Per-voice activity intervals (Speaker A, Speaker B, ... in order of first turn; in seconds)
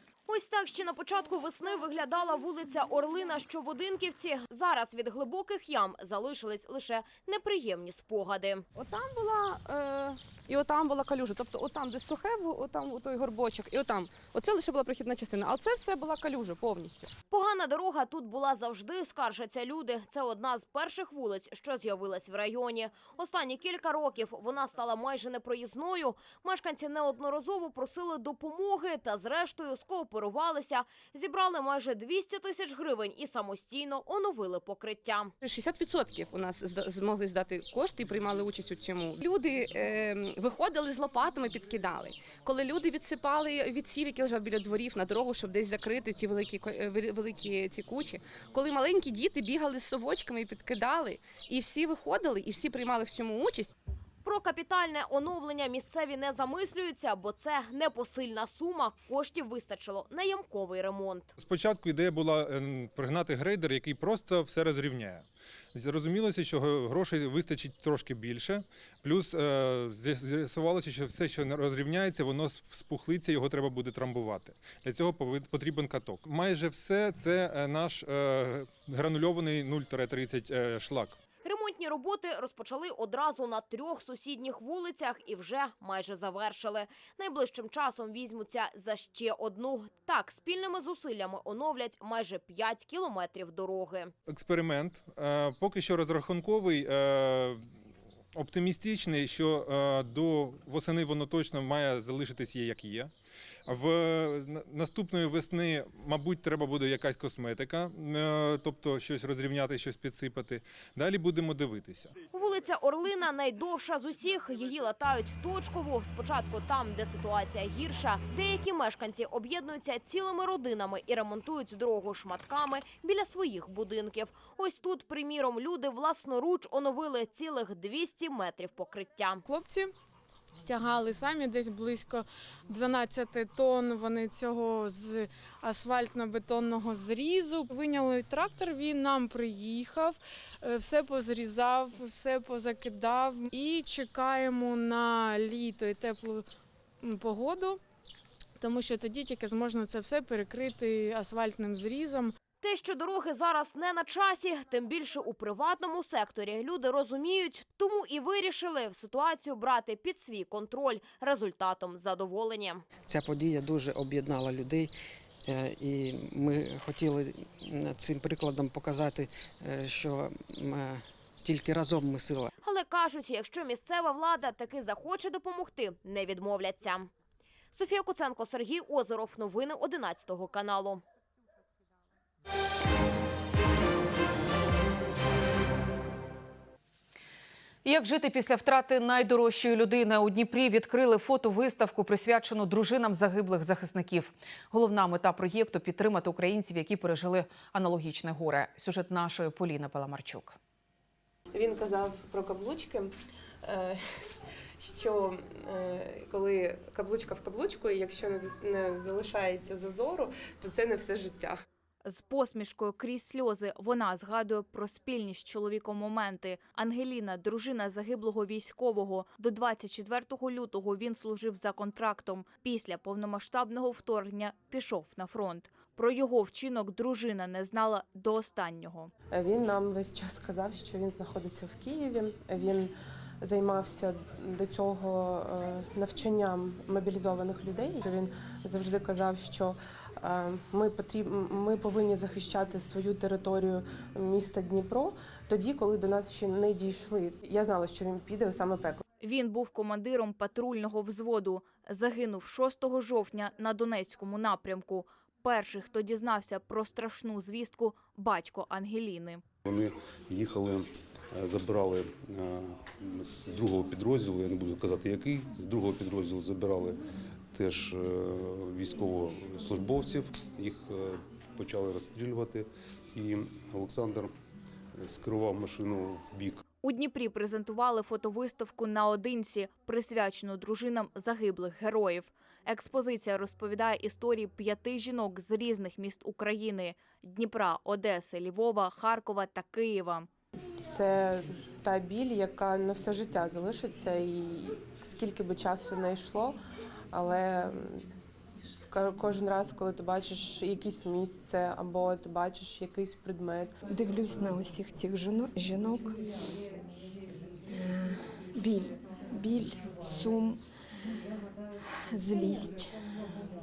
Speaker A: 0.3-8.6, 17.3-35.3, 54.2-61.3, 81.4-94.1, 112.3-129.4, 152.6-162.8, 172.6-177.1, 177.7-181.0
Speaker B: 8.7-17.1, 35.4-53.7
Speaker C: 61.4-81.2, 94.3-97.7, 98.3-103.1, 103.7-112.2
Speaker D: 129.4-129.9, 130.6-146.5, 147.0-147.8, 148.6-152.3
Speaker E: 163.1-164.9, 165.4-172.5
Speaker F: 187.8-200.6
Speaker G: 201.5-203.1, 203.6-204.0, 204.8-211.6, 229.3-249.0, 290.8-296.6, 297.1-298.1, 298.9-303.7
Speaker H: 212.0-229.1, 249.2-259.4, 276.8-290.3
Speaker I: 259.6-267.0, 267.5-274.3, 275.0-276.6
Speaker J: 303.9-306.2, 308.5-310.6, 312.1-313.0